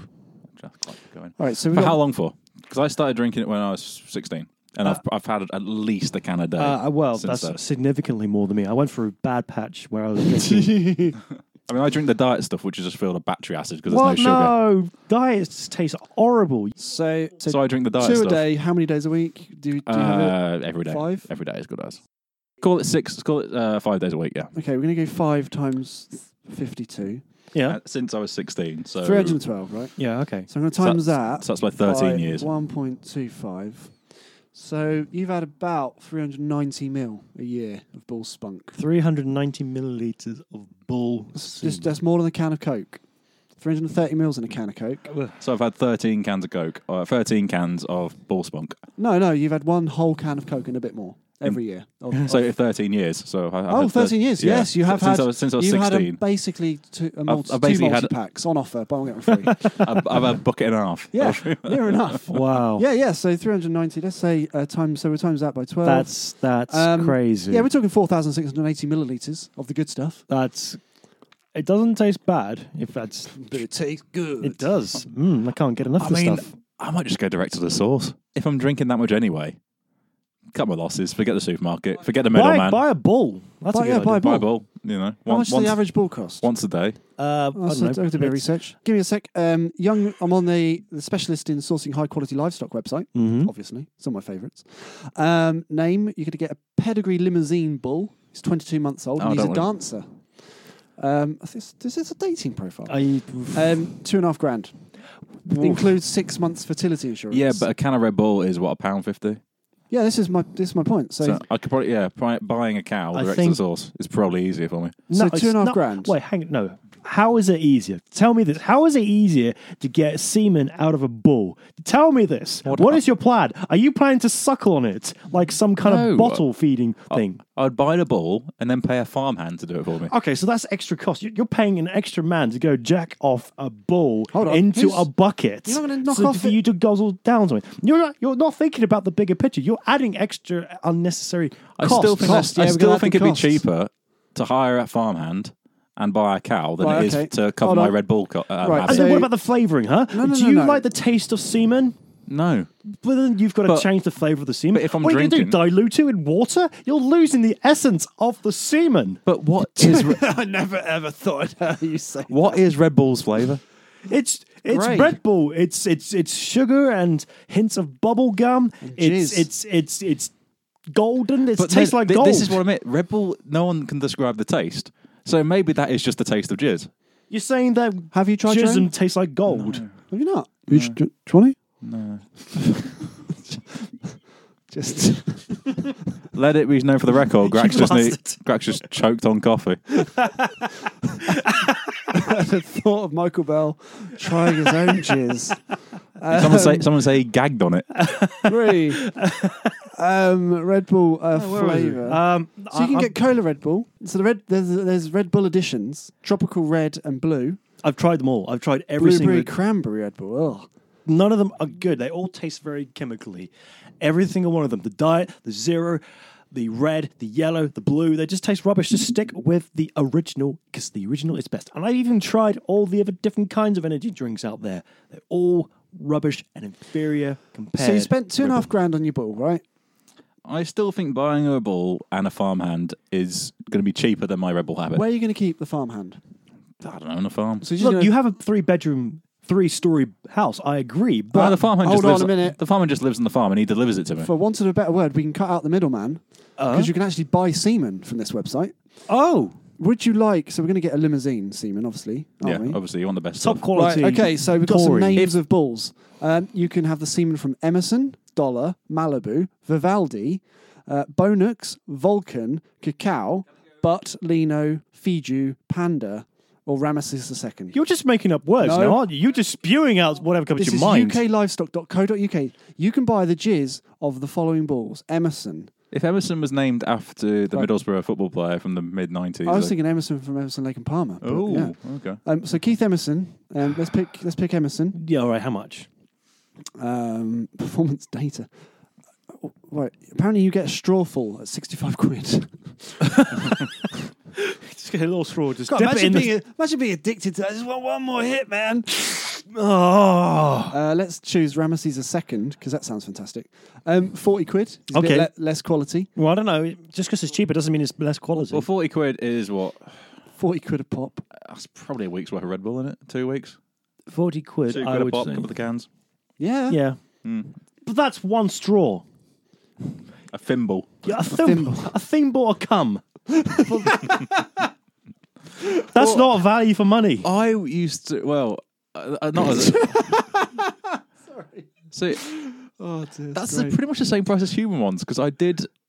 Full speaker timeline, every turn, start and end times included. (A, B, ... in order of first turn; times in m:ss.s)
0:00.5-0:07.6 A
0:01.4-0:02.0 B
0:06.6-0:10.9 C
0:10.4-0:11.2 B
0:11.7-0:14.5 A
0:13.9-0:16.8 C
0:16.8-0:21.3 B
0:17.4-0:18.4 A
0:19.9-0:22.0 A
0:22.6-0:24.5 A
0:24.5-0:27.2 B
0:27.5-0:27.8 C
0:27.7-0:29.4 A
0:29.0-0:33.9 B
0:30.0-0:30.5 C
0:30.8-0:32.4 A
0:34.5-0:38.8 B
0:38.8-0:41.9 C
0:41.4-0:43.0 B
0:43.6-0:45.1 B
0:45.1-0:45.3 C
0:45.4-0:48.8 A
0:49.0-0:52.4 B
0:52.2-0:56.2 A
0:53.7-0:59.9 B
0:57.3-0:58.1 A
0:59.5-0:59.8 C
0:59.8-1:02.2 A
1:01.1-1:06.1 B
1:02.3-1:02.8 C
1:05.8-1:07.7 C
1:06.7-1:10.2 B
1:10.3-1:10.8 C
1:11.6-1:13.6 C
1:13.4-1:14.7 B
1:14.4-1:16.5 C
1:16.0-1:19.6 A
1:20.5-1:22.8 A
1:22.3-1:24.3 C
1:23.7-1:24.5 B
1:24.1-1:25.8 A
1:25.3-1:26.5 B
1:26.4-1:27.0 A
1:27.2-1:28.5 C
1:27.6-1:44.8 B
1:33.1-1:33.5 C
1:39.2-1:39.7 A
1:42.9-1:43.8 C
1:45.4-1:45.9 C
1:45.6-1:47.6 B
1:47.3-1:49.4 A
1:49.9-1:51.4 B
1:51.2-1:55.0 A
1:53.1-1:53.6 C
1:55.1-2:07.4 C
1:55.1-1:56.1 B
2:02.6-2:03.0 A
2:05.8-2:06.4 A
2:07.1-2:10.1 A
2:10.1-2:22.4 C
2:14.3-2:15.1 B
2:15.6-2:16.6 B
2:21.8-2:29.2 A
2:21.9-2:23.6 B
2:26.8-2:28.0 B
2:28.6-2:29.3 B
2:28.8-2:31.9 C
2:30.1-2:30.8 B
2:32.3-2:32.7 A
2:33.0-2:39.2 C
2:34.7-2:35.6 A
2:39.2-2:40.2 A
2:39.7-2:42.6 B
2:42.3-2:43.6 A
2:44.1-2:50.3 C
2:44.7-2:45.2 B
2:48.8-2:49.5 B
2:50.9-2:52.6 C
2:51.6-2:56.9 A
2:57.3-2:59.8 C
2:58.1-2:58.9 B
2:59.5-2:59.9 A
3:00.1-3:01.6 B
3:00.7-3:01.0 A
3:01.8-3:03.0 A
3:04.7-3:06.0 B
3:06.3-3:09.8 A
3:07.5-3:08.4 C
3:07.6-3:07.9 B
3:11.3-3:11.9 C
3:12.1-3:15.6 B
3:16.2-3:16.9 B
3:16.3-3:17.9 A
3:18.0-3:19.8 C
3:18.4-3:19.0 B
3:19.9-3:27.6 B
3:21.3-3:23.1 C
3:27.8-3:29.5 C
3:29.0-3:30.7 B
3:31.1-3:33.5 C
3:34.0-3:48.6 C
3:47.8-3:49.6 B
3:50.4-3:55.0 A
3:54.9-3:56.2 B
3:56.8-3:57.6 A
3:57.6-3:58.1 B
3:57.8-4:01.6 C
4:01.3-4:02.6 B
4:01.3-4:04.3 A
4:04.2-4:08.7 B
4:06.6-4:06.9 C
4:09.1-4:09.6 C
4:09.8-4:12.8 B
4:12.4-4:13.7 A
4:13.4-4:15.2 C
4:13.7-4:27.8 B
4:27.7-4:31.2 C
4:28.6-4:29.0 B
4:30.6-4:35.7 B
4:35.9-4:39.7 A
4:39.4-4:45.0 B
4:41.2-4:42.2 A
4:44.9-4:45.9 C
4:46.8-4:48.5 B
4:49.4-4:53.6 B
4:53.1-4:53.5 C
4:54.4-4:56.3 C
4:55.7-4:59.3 B
4:59.3-5:00.7 C
5:00.7-5:06.1 B
5:04.9-5:05.3 C
5:06.2-5:08.7 C
5:08.5-5:09.9 A
5:10.4-5:11.2 B
5:11.4-5:13.6 A
5:14.1-5:15.5 C
5:14.7-5:15.9 A
5:16.4-5:16.8 B
5:16.7-5:17.0 C
5:17.2-5:17.6 A
5:17.8-5:19.0 C
5:20.3-5:21.1 A
5:21.0-5:23.0 C
5:21.3-5:21.9 B
5:23.3-5:24.5 B
5:25.9-5:27.3 C
5:27.2-5:30.1 A
5:29.6-5:33.8 B
5:31.9-5:32.2 A
5:33.3-5:35.7 A